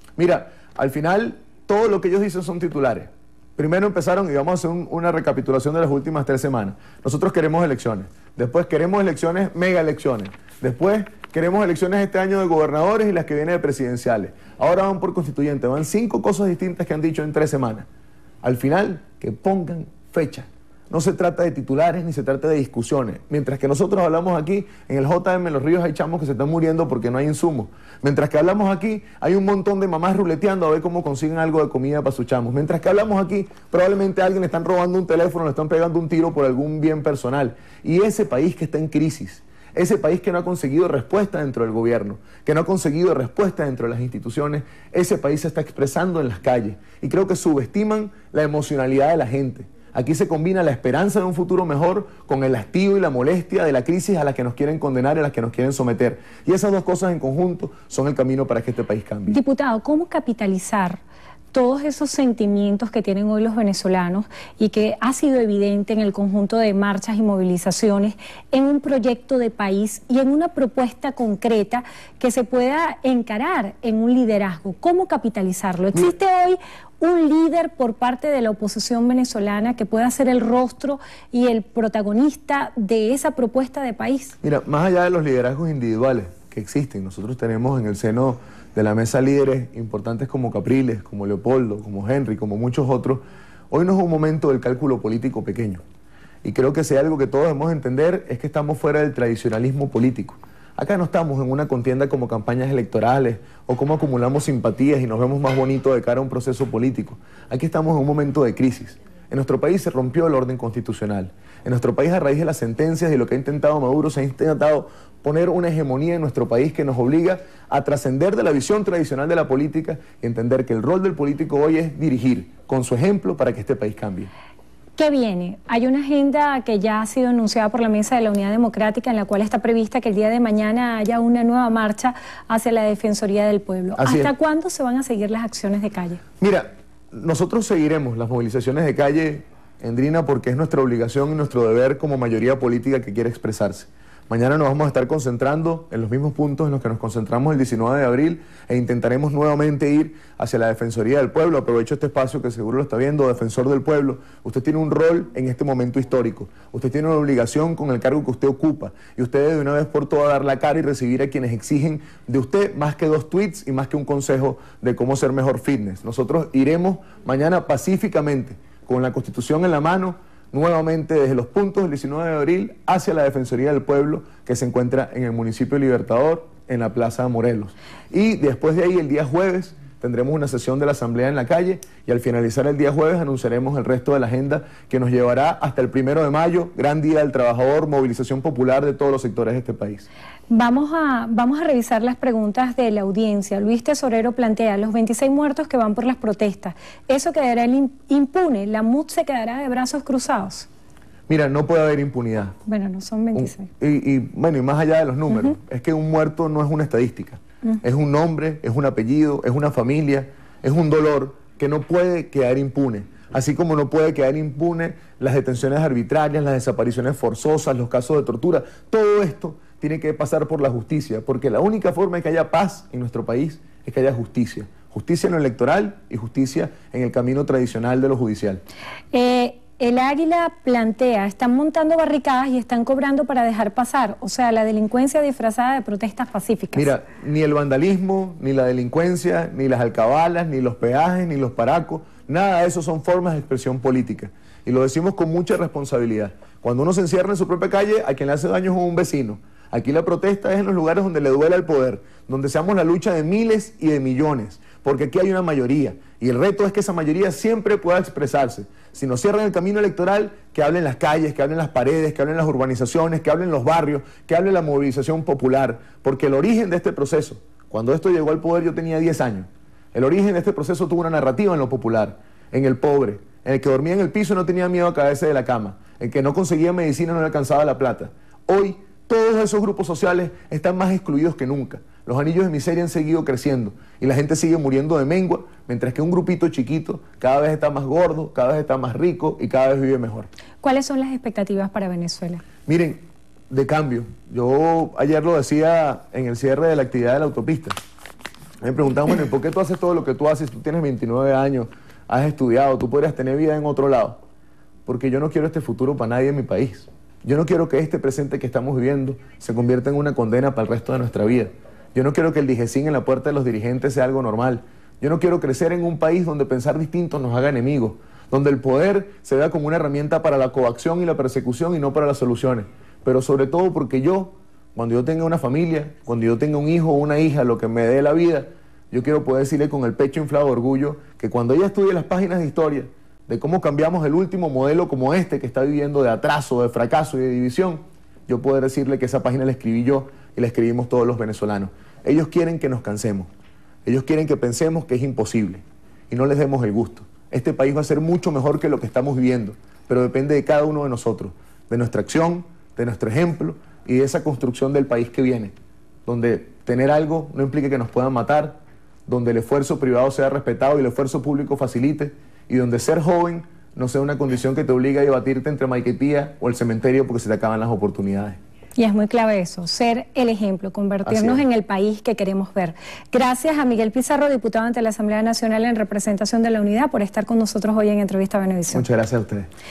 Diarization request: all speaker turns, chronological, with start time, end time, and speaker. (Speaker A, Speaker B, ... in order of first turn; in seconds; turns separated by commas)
Speaker A: 0.2-17.9, Speaker A: 18.4-59.4, Speaker B: 59.3-61.0, Speaker B: 61.5-84.4, Speaker A: 84.4-95.8, Speaker A: 96.4-124.3, Speaker B: 125.0-136.2, Speaker A: 134.0-134.3, Speaker A: 136.4-190.1, Speaker B: 190.5-200.7, Speaker A: 201.3-202.6, Speaker B: 202.7-203.7, Speaker A: 203.3-228.6, Speaker B: 229.1-236.9, Speaker A: 236.8-290.3, Speaker B: 290.6-292.4, Speaker A: 292.7-297.8, Speaker A: 298.6-304.2, Speaker A: 304.9-343.3, Speaker A: 343.9-355.5, Speaker A: 356.1-368.4, Speaker B: 368.8-378.9, Speaker A: 371.1-371.4, Speaker A: 378.7-379.5